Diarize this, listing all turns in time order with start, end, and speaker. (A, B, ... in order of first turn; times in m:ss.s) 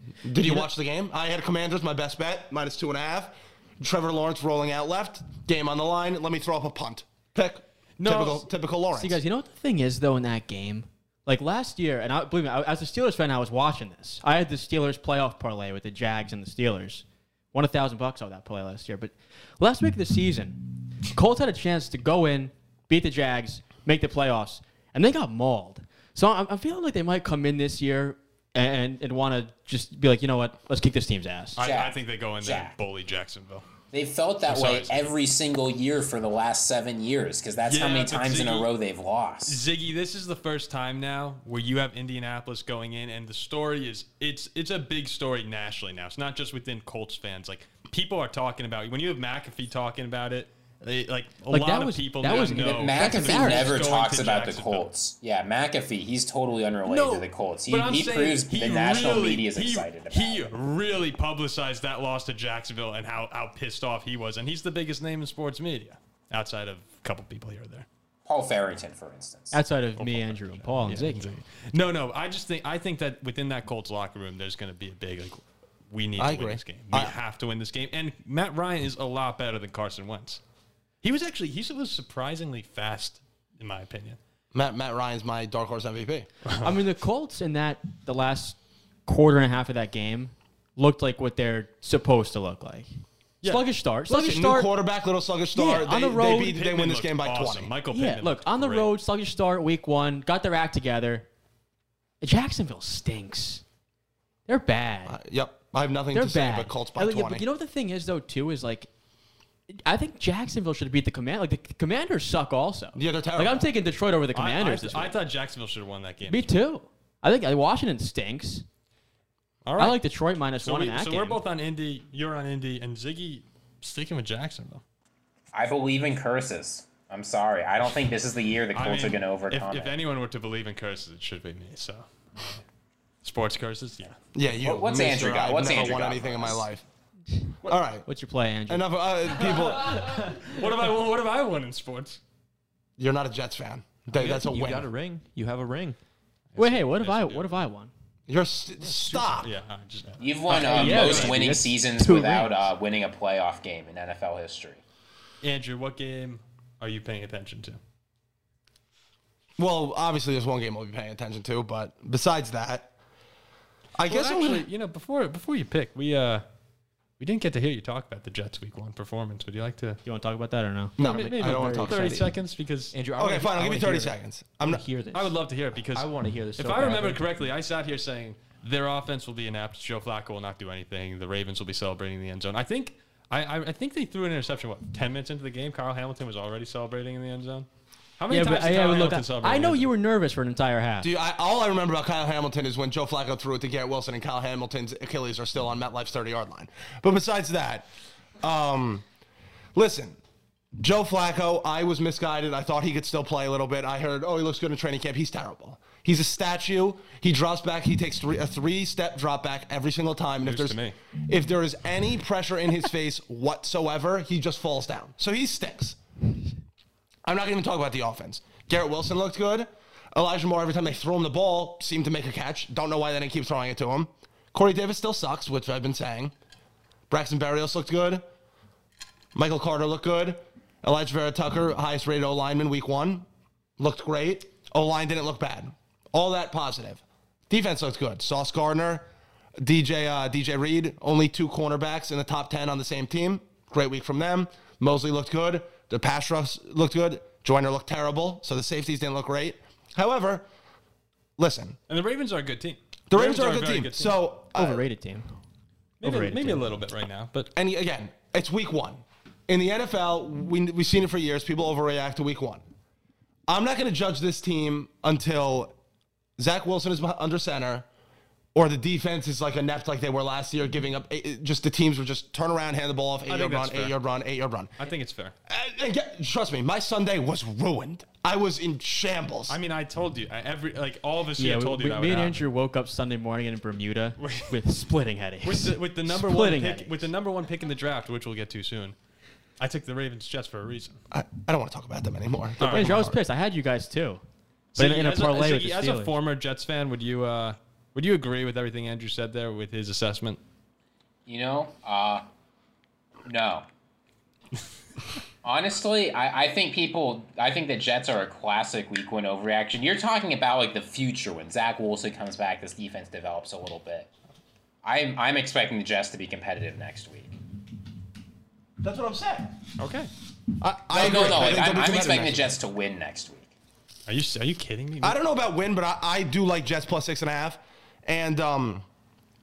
0:00.2-0:09.2 A
0:08.0-0:08.5 B
0:08.9-0:31.6 C
0:31.6-0:33.6 B
0:31.6-0:32.7 D
0:33.9-0:39.6 D
0:34.5-0:35.1 B
0:37.6-0:38.7 B
0:39.4-0:54.9 B
0:51.5-0:53.8 C
0:52.3-1:00.6 D
0:56.8-1:07.8 B
1:08.2-1:09.6 D
1:09.5-1:11.3 C
1:10.0-1:20.4 B
1:16.2-1:17.2 A
1:21.0-1:24.2 B
1:24.5-1:26.3 A
1:26.4-1:26.8 B
1:26.6-1:32.9 C
1:33.4-1:34.7 C
1:34.1-1:37.7 A
1:35.5-1:36.6 C
1:36.3-1:38.9 B
1:37.9-1:41.3 C
1:42.2-1:43.6 C
1:44.5-1:45.2 C
1:45.0-1:47.4 A
1:46.1-1:48.9 C
1:49.7-1:55.1 C
1:52.9-1:53.7 A
1:54.3-1:56.5 B
1:56.3-1:58.6 C
1:59.6-2:00.0 B
1:59.8-2:01.4 C
2:00.6-2:04.8 B
2:05.5-2:10.0 D
2:08.7-2:12.6 B
2:13.2-2:14.2 B
2:14.3-2:16.8 A
2:14.6-2:16.6 D
2:17.6-2:18.1 A
2:18.0-2:18.9 C
2:18.7-2:20.0 A
2:19.8-2:22.2 B
2:23.0-2:24.9 A
2:24.1-2:26.0 E
2:26.5-2:27.6 B
2:26.6-2:27.9 C
2:28.3-2:29.5 A
2:29.1-2:31.4 B
2:30.2-2:34.8 D
2:30.5-2:32.6 C
2:35.4-2:37.8 B
2:39.6-2:42.9 A
2:44.0-2:44.7 A
2:44.0-2:46.4 B
2:47.2-2:50.0 B
2:50.0-2:51.0 C
2:51.0-2:52.3 A
2:51.0-2:52.9 B
2:51.0-2:52.3 E
2:52.9-2:55.4 E
2:53.2-2:54.8 A
2:55.1-3:07.7 B
2:55.9-2:57.2 E
3:08.2-3:09.9 B
3:08.3-3:11.1 C
3:11.0-3:17.9 A
3:18.4-3:19.0 A
3:19.7-3:20.2 A
3:20.8-3:36.0 A
3:30.4-3:31.0 B
3:37.2-3:46.3 A
3:47.1-3:48.2 A
3:49.3-3:53.2 A
3:53.8-3:59.1 A
3:59.6-4:10.4 A
4:11.4-4:11.8 A
4:11.9-4:14.2 B
4:13.1-4:14.8 A
4:14.5-4:15.3 C
4:16.0-4:17.5 B
4:16.0-4:16.6 C
4:17.5-4:22.6 A
4:23.5-4:25.7 A
4:26.4-4:27.8 A
4:28.5-4:34.7 A
4:33.3-4:34.0 B
4:34.8-4:35.3 B
4:35.5-4:39.6 A
4:39.5-4:42.4 B
4:41.4-4:47.1 C
4:44.2-4:44.6 B
4:45.4-4:48.9 B
4:49.6-4:51.0 B
4:51.1-4:53.2 A
4:52.6-4:53.0 B
4:52.6-4:54.2 C
4:54.7-5:00.4 B
4:54.8-4:56.1 C
5:01.3-5:02.2 D
5:03.2-5:03.6 D
5:05.4-5:14.1 D
5:14.8-5:17.3 D
5:18.8-5:19.5 A
5:19.8-5:20.1 B
5:20.6-5:22.5 A
5:20.9-5:23.5 D
5:24.1-5:25.2 B
5:25.0-5:28.8 A